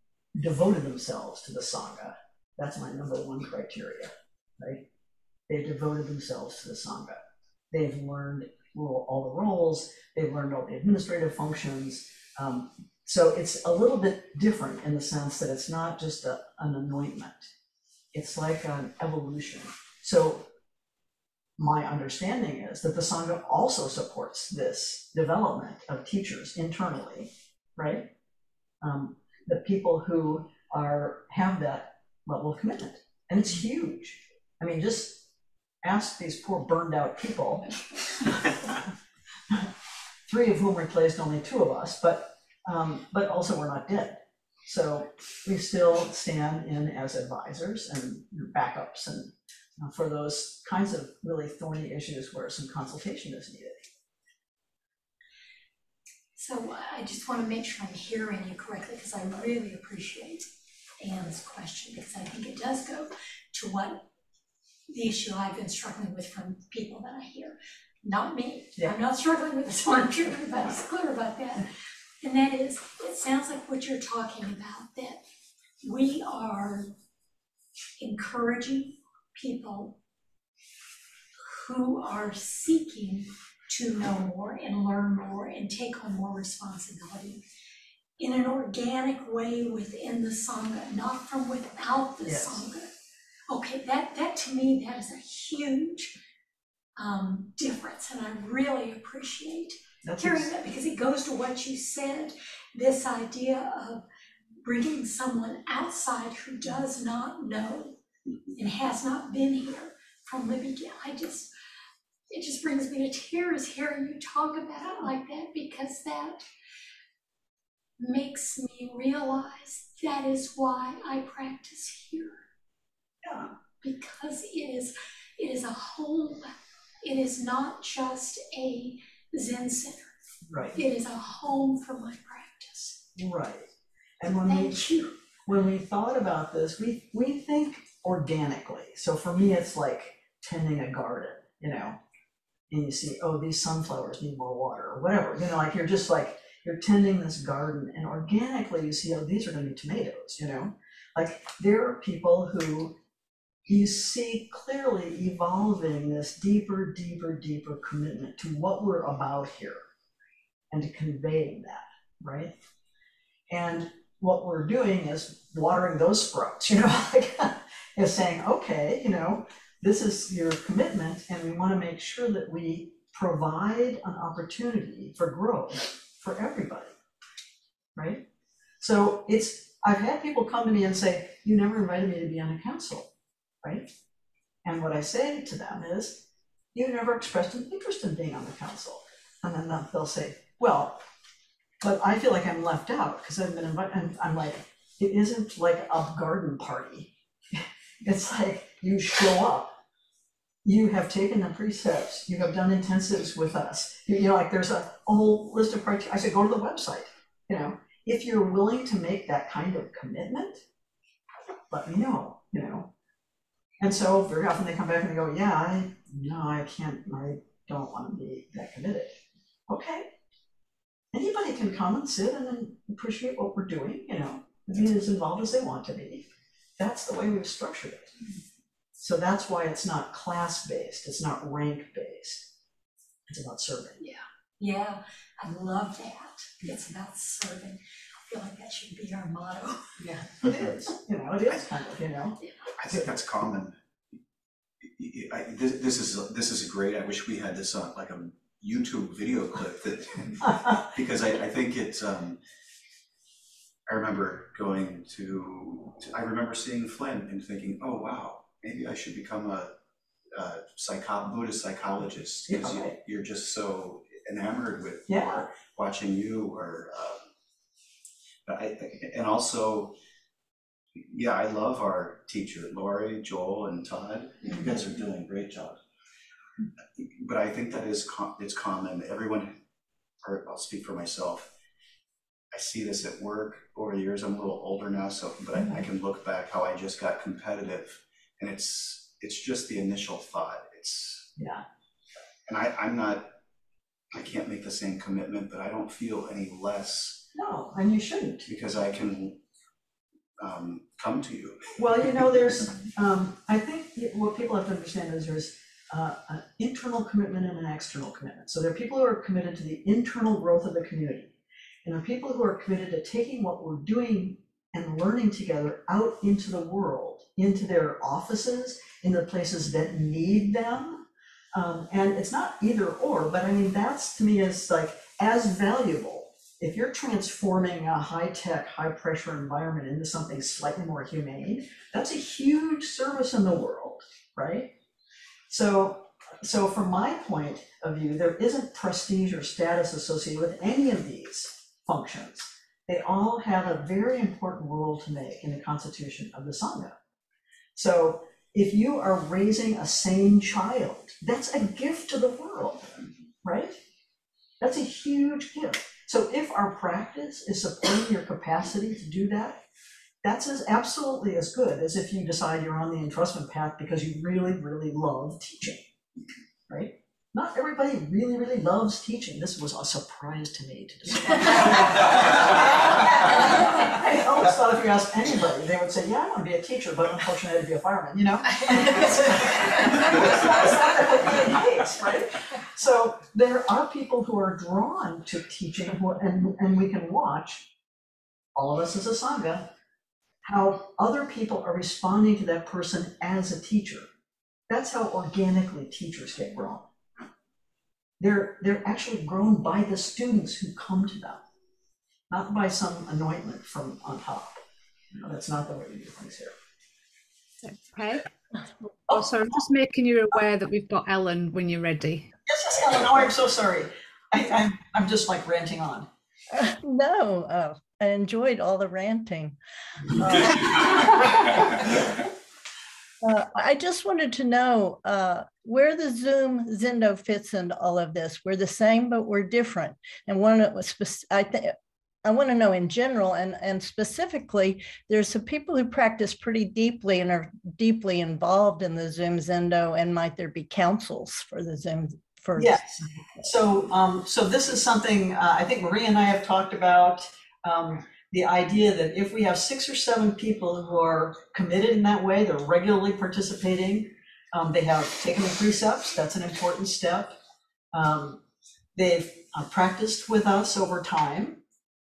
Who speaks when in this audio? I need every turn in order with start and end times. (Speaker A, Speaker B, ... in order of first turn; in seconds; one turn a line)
Speaker A: 0.3-4.8
Speaker A: 5.5-7.2
Speaker A: 7.7-17.5
Speaker A: 18.1-20.5
Speaker A: 21.6-28.1
Speaker A: 28.8-35.3
Speaker A: 35.8-37.7
Speaker A: 40.3-53.8
Speaker B: 56.4-60.5
Speaker B: 61.0-64.1
Speaker B: 64.9-71.7
Speaker B: 72.2-75.2
Speaker B: 75.8-76.9
Speaker B: 78.0-80.0
Speaker B: 81.5-87.4
Speaker B: 88.2-92.9
Speaker A: 92.2-92.6
Speaker B: 93.5-96.2
Speaker B: 97.0-104.0
Speaker A: 100.0-100.5
Speaker B: 104.6-108.0
Speaker B: 108.5-111.5
Speaker B: 112.3-116.4
Speaker B: 118.0-122.4
Speaker A: 123.2-123.5
Speaker B: 123.8-130.1
Speaker A: 130.4-130.8
Speaker B: 130.7-133.0
Speaker A: 133.2-133.7
Speaker A: 134.2-142.0
Speaker B: 134.4-135.1
Speaker A: 142.7-152.9
Speaker A: 153.7-159.8
Speaker A: 160.7-162.5
Speaker A: 163.5-176.9
Speaker A: 177.9-178.2
Speaker A: 178.8-183.1
Speaker A: 183.6-183.9
Speaker A: 184.6-191.0
Speaker A: 191.8-199.7
Speaker A: 200.6-210.6
Speaker A: 211.7-212.9
Speaker A: 213.8-220.1
Speaker A: 221.1-226.3
Speaker A: 226.8-228.1
Speaker A: 229.0-232.5
Speaker A: 233.3-234.0
Speaker B: 234.0-239.8
Speaker A: 240.0-242.4
Speaker C: 242.8-243.8
Speaker C: 244.8-252.4
Speaker C: 253.9-259.7
Speaker C: 260.4-267.2
Speaker A: 262.5-263.0
Speaker A: 265.1-265.4
Speaker C: 268.4-270.0
Speaker C: 270.9-275.8
Speaker C: 276.9-279.6
Speaker C: 280.2-281.5
Speaker C: 282.5-291.3
Speaker A: 291.4-291.6
Speaker C: 292.5-293.3
Speaker C: 294.1-297.3
Speaker A: 297.3-298.5
Speaker C: 298.4-299.4
Speaker C: 300.4-301.7
Speaker A: 301.8-311.3
Speaker A: 311.8-334.7
Speaker A: 335.5-346.9
Speaker A: 347.7-353.8
Speaker A: 354.6-359.6
Speaker A: 360.2-365.9
Speaker A: 366.7-387.7
Speaker A: 388.6-389.7
Speaker A: 390.4-394.1
Speaker A: 394.7-396.9
Speaker A: 398.2-401.4
Speaker A: 402.3-404.6
Speaker A: 405.1-406.5
Speaker D: 407.6-408.2
Speaker D: 409.1-412.3
Speaker A: 412.5-416.1
Speaker E: 416.5-419.6
Speaker A: 420.2-421.6
Speaker E: 420.4-421.4
Speaker E: 423.2-443.0
Speaker A: 442.6-457.3
Speaker A: 457.9-458.4
Speaker A: 458.9-461.6